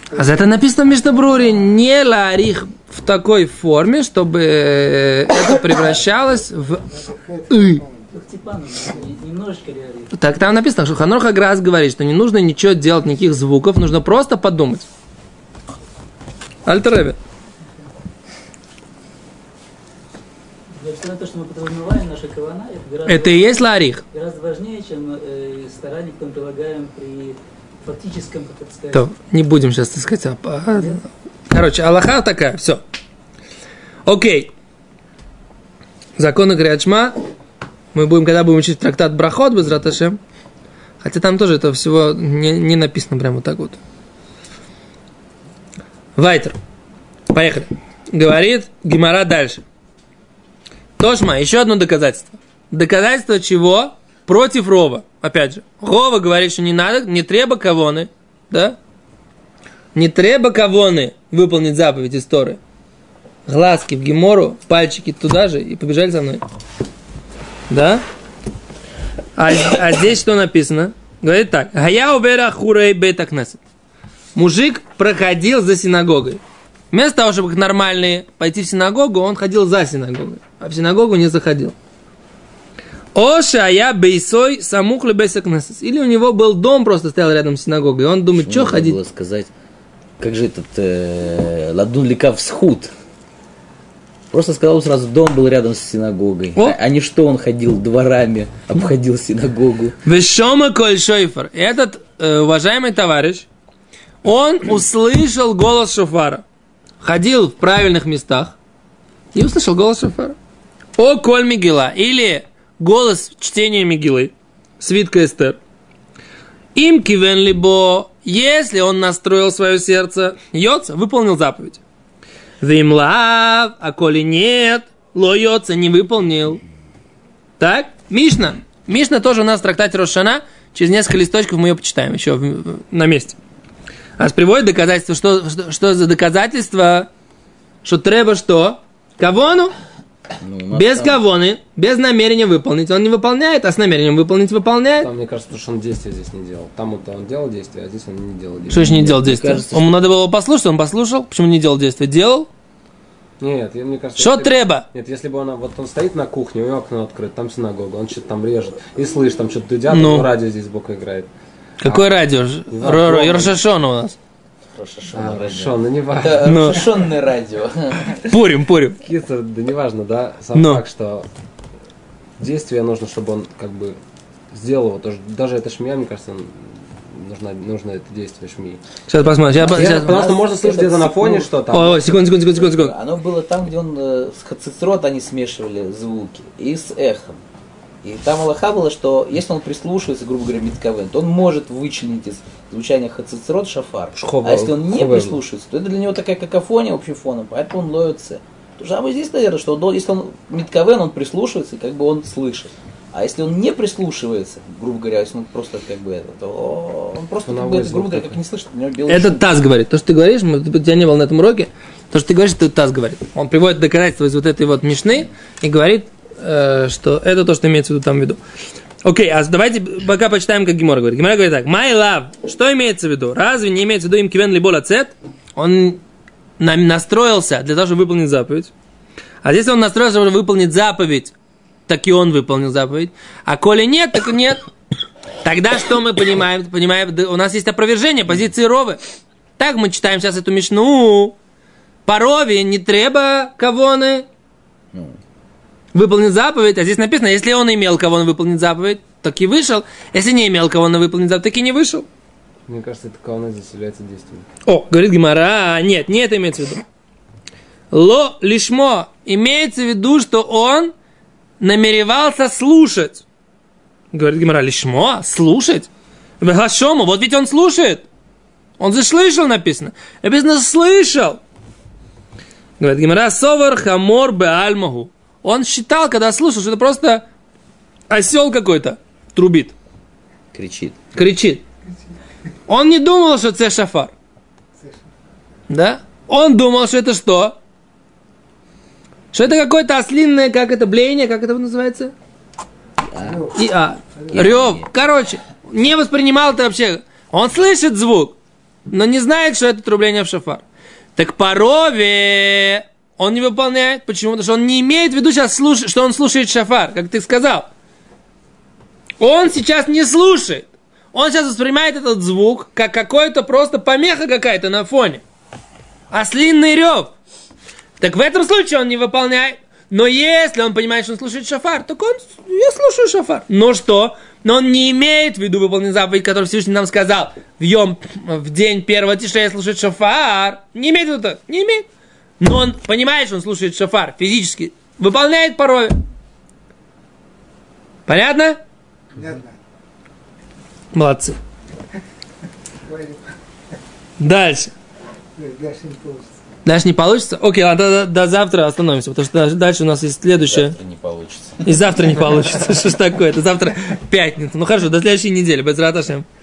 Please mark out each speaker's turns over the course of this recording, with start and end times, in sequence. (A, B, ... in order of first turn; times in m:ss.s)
0:00.1-0:06.8 A
0:00.1-0:00.8 B
0:05.8-0:09.1 B
0:07.5-0:07.8 A
0:08.1-0:10.1 C
0:10.1-0:14.9 A
0:16.6-0:17.2 A
0:20.7-0:23.6 C
0:23.0-0:24.0 A
0:24.1-0:29.1 C
0:28.9-0:32.8 A
0:30.7-0:31.0 C
0:34.0-0:34.5 A
0:36.2-0:37.2 A
0:37.9-0:40.2 A
0:41.0-0:43.8 A
0:46.2-0:46.6 A
0:47.3-0:49.6 A
0:51.0-0:58.8 A
0:59.9-1:02.6 A
1:03.4-1:06.4 A
1:07.7-1:08.0 A
1:09.4-1:13.6 A
1:14.3-1:21.7 A
1:23.1-1:29.0 A
1:28.4-1:29.5 D
1:30.2-1:32.9 D
1:34.3-1:40.0 D
1:40.0-1:43.5 A
1:44.2-1:46.4 A
1:47.0-1:48.6 A
1:49.3-1:50.4 A
1:51.0-1:55.6 A
1:56.7-2:01.8 A
2:02.6-2:06.6 A
2:07.6-2:13.4 A
2:14.2-2:17.1 A
2:17.8-2:19.7 A
2:20.4-2:21.2 D
2:20.7-2:25.1 A
2:25.0-2:29.1 E
2:28.7-2:32.5 A
2:28.7-2:29.9 D
2:33.4-2:41.3 E
2:34.2-2:34.8 A
2:39.9-2:40.3 A
2:41.8-2:44.2 A
2:42.7-2:43.6 E
2:44.7-2:48.2 D
2:45.1-2:46.8 E
2:46.4-2:46.8 A
2:48.2-2:49.0 A
2:49.0-2:51.3 E
2:50.5-2:50.8 A
2:52.4-2:54.0 E
2:54.5-2:58.8 E
2:59.1-3:00.2 A
2:59.6-3:01.5 D
2:59.6-3:02.2 E
3:01.7-3:02.9 A
3:02.5-3:07.4 D
3:08.0-3:29.4 D
3:14.2-3:15.4 E
3:27.4-3:28.4 E
3:29.1-3:38.4 A
3:39.0-3:46.0 A
3:46.6-3:48.7 A
3:49.4-3:51.3 A
3:51.9-3:54.6 A
3:55.4-3:59.0 A
3:59.6-4:01.4 A
4:02.0-4:04.2 A
4:05.9-4:12.1 A
4:12.7-4:14.4 E
4:14.6-4:16.8 A
4:17.9-4:20.9 A
4:21.6-4:23.2 A
4:24.1-4:25.9 A
4:26.4-4:28.0 A
4:28.8-4:31.4 A
4:32.8-4:37.2 A
4:38.1-4:39.7 A
4:40.5-4:41.0 D
4:41.1-4:41.6 A
4:42.7-4:44.1 A
4:44.8-4:45.1 B
4:45.7-4:47.6 A
4:49.3-4:52.1 A
4:53.0-4:53.5 D
4:53.2-4:53.6 B
4:53.5-4:58.4 A
4:54.2-4:54.4 B
4:54.3-4:54.9 D
4:58.9-5:00.6 A
5:01.2-5:07.7 A
5:09.2-5:15.2 A
5:16.1-5:17.1 A
5:18.0-5:31.8 A
5:32.4-5:36.0 A
5:38.1-5:38.6 A
5:39.1-5:39.6 B
5:40.9-5:41.4 A
5:42.8-5:43.3 B
5:44.2-5:44.7 A
5:45.4-5:46.4 B
5:46.6-5:50.8 A
5:50.4-5:52.1 D
5:51.6-5:56.2 A